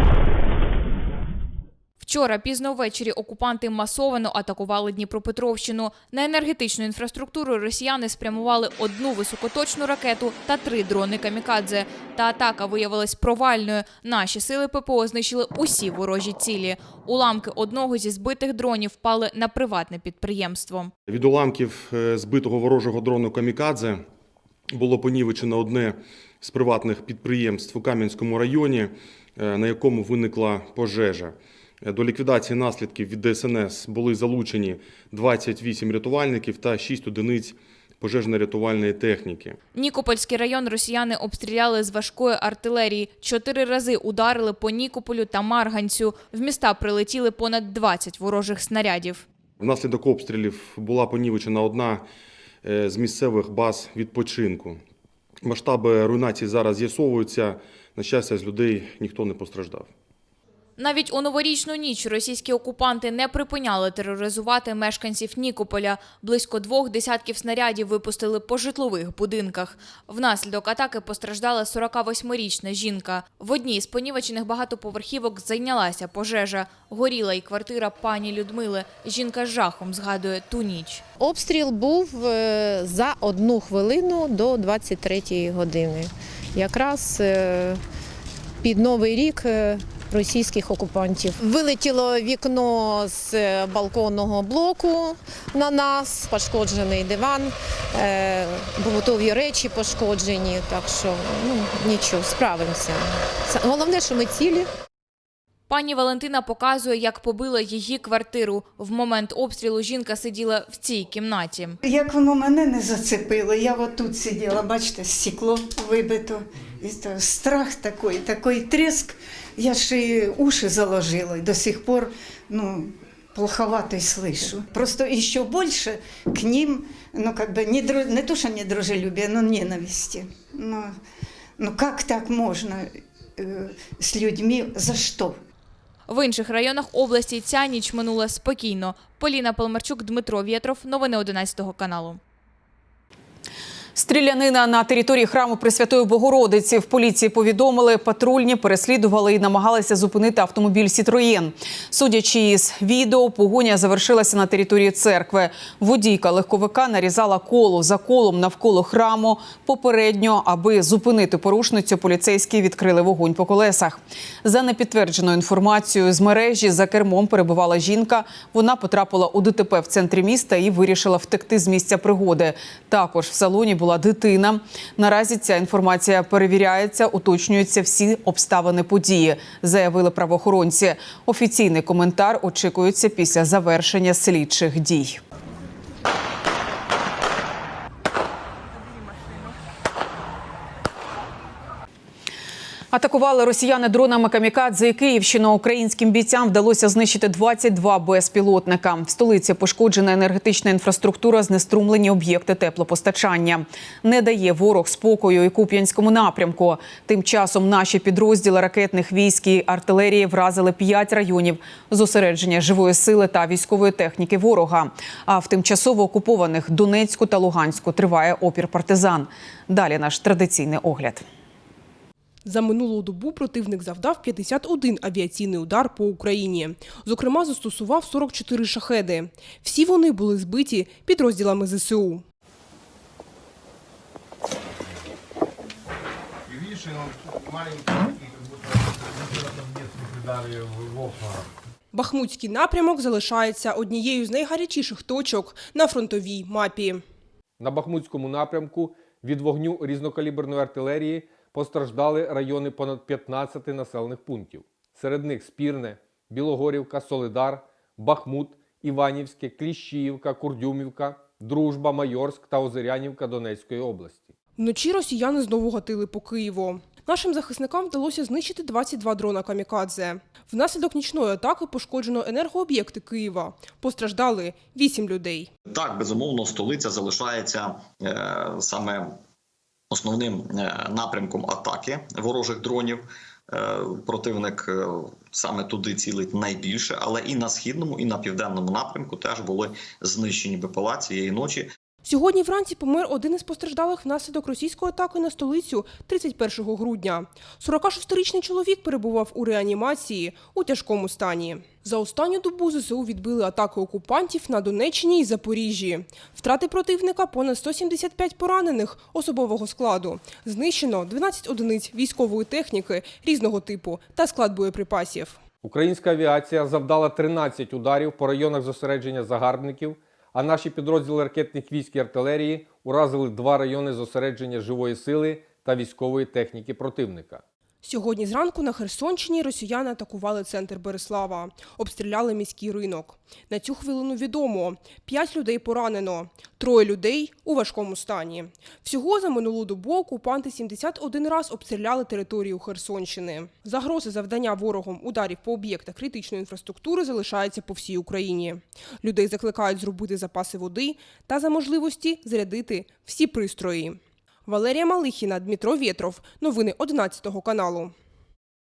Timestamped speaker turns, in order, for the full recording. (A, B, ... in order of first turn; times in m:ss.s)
0:02.0-0:20.9 A
0:21.1-0:24.0 B
0:24.7-0:39.6 B
0:39.7-0:49.2 A
0:49.6-0:52.0 B
0:52.6-0:54.8 B
0:55.4-0:59.9 B
1:00.8-1:21.0 A
1:21.2-1:27.8 C
1:28.6-1:44.7 C
1:45.7-1:51.8 A
1:51.8-2:10.9 D
2:11.6-2:15.4 D
2:16.1-2:22.2 A
2:24.0-3:05.2 E
3:12.9-3:41.2 E
3:42.4-3:52.2 F
4:01.9-4:07.0 F
4:07.6-4:24.2 G
4:24.6-4:35.5 F
4:35.7-4:39.2 H
4:39.9-4:51.7 H
4:52.0-5:15.4 F
5:15.6-5:27.4 G
5:27.8-5:57.9 F